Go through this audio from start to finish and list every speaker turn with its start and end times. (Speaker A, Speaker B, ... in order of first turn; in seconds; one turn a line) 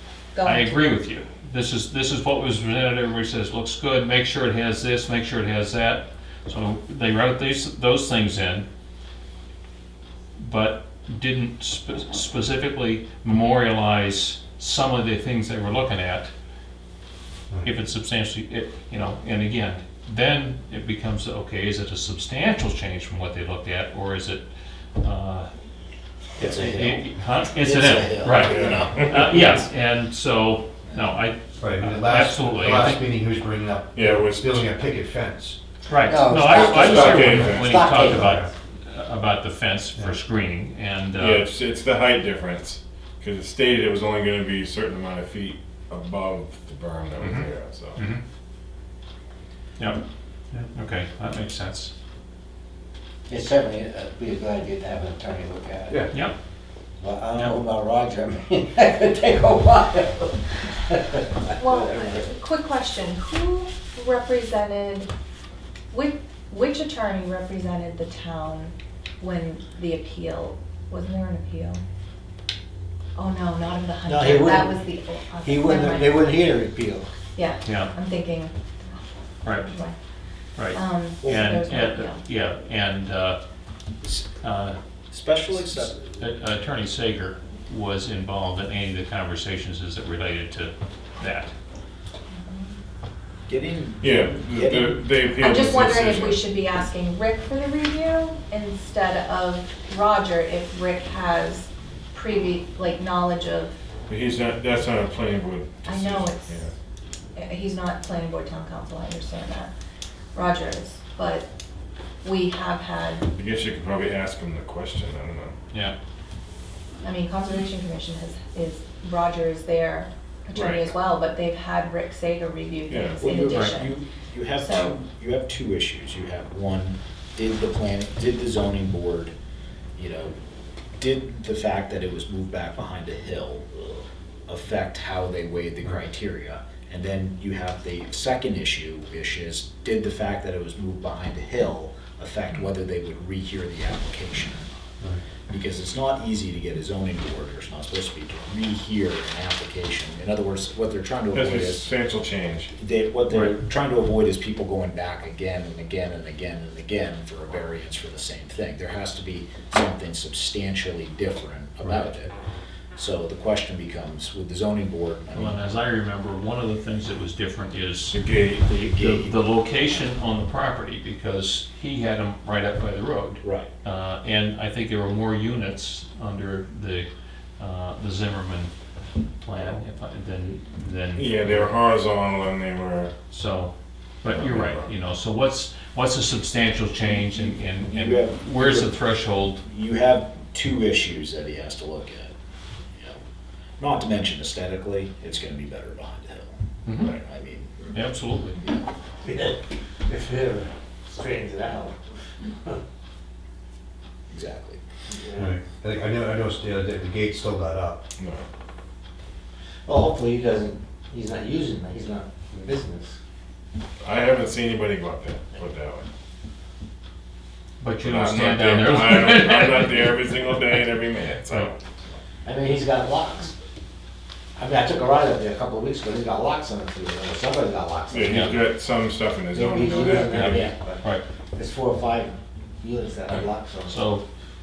Speaker A: 0.3-1.0
Speaker B: 0.4-8.7
Speaker B: 10.4-16.3
Speaker B: 17.6-24.5
Speaker B: 25.0-25.5
Speaker C: 26.4-29.2
Speaker D: 26.4-26.8
Speaker B: 26.4-33.0
Speaker E: 28.3-29.4
Speaker F: 31.6-35.6
Speaker E: 33.9-34.7
Speaker B: 35.9-41.5
Speaker D: 36.0-38.3
Speaker E: 36.5-37.9
Speaker F: 37.2-38.5
Speaker E: 41.1-48.0
Speaker B: 49.8-50.0
Speaker B: 50.7-51.9
Speaker D: 53.3-56.0
Speaker D: 57.0-62.3
Speaker A: 61.6-65.1
Speaker A: 65.9-71.8
Speaker A: 73.2-76.2
Speaker D: 74.0-74.8
Speaker D: 75.4-77.1
Speaker A: 77.3-80.0
Speaker B: 77.6-77.9
Speaker B: 79.4-79.7
Speaker B: 80.5-83.4
Speaker A: 80.7-82.2
Speaker B: 84.1-84.8
Speaker C: 85.1-86.2
Speaker B: 85.5-91.5
Speaker A: 92.3-92.8
Speaker C: 93.5-95.2
Speaker E: 94.0-96.4
Speaker A: 95.3-103.7
Speaker E: 104.1-106.7
Speaker A: 105.8-106.5
Speaker A: 107.3-109.7
Speaker A: 110.3-111.5
Speaker A: 112.2-113.3
Speaker E: 113.3-115.5
Speaker A: 117.0-124.0
Speaker E: 120.5-120.9
Speaker E: 122.9-123.2
Speaker C: 123.2-129.3
Speaker B: 123.5-123.8
Speaker A: 124.5-125.0
Speaker C: 129.9-130.3
Speaker C: 131.0-144.7
Speaker C: 145.5-151.9
Speaker E: 151.3-152.7
Speaker C: 152.7-162.3
Speaker C: 162.9-165.7
Speaker B: 165.3-178.7
Speaker E: 168.1-168.7
Speaker C: 168.8-169.3
Speaker C: 173.4-173.7
Speaker B: 179.4-181.7
Speaker E: 181.2-183.1
Speaker B: 183.3-189.6
Speaker E: 184.3-184.8
Speaker C: 187.3-189.1
Speaker C: 189.6-192.3
Speaker C: 193.8-198.0
Speaker B: 196.8-197.1
Speaker B: 197.9-198.6
Speaker C: 198.6-198.8
Speaker D: 199.2-202.0
Speaker C: 204.3-204.8
Speaker D: 205.1-205.5
Speaker F: 205.3-208.1
Speaker E: 208.2-208.4
Speaker D: 209.8-213.2
Speaker E: 214.0-216.1
Speaker B: 217.8-220.2
Speaker E: 218.0-221.8
Speaker D: 222.4-223.5
Speaker D: 224.6-228.6
Speaker E: 228.1-230.7
Speaker B: 228.2-228.5
Speaker D: 229.5-234.0
Speaker B: 230.1-231.2
Speaker B: 233.9-234.2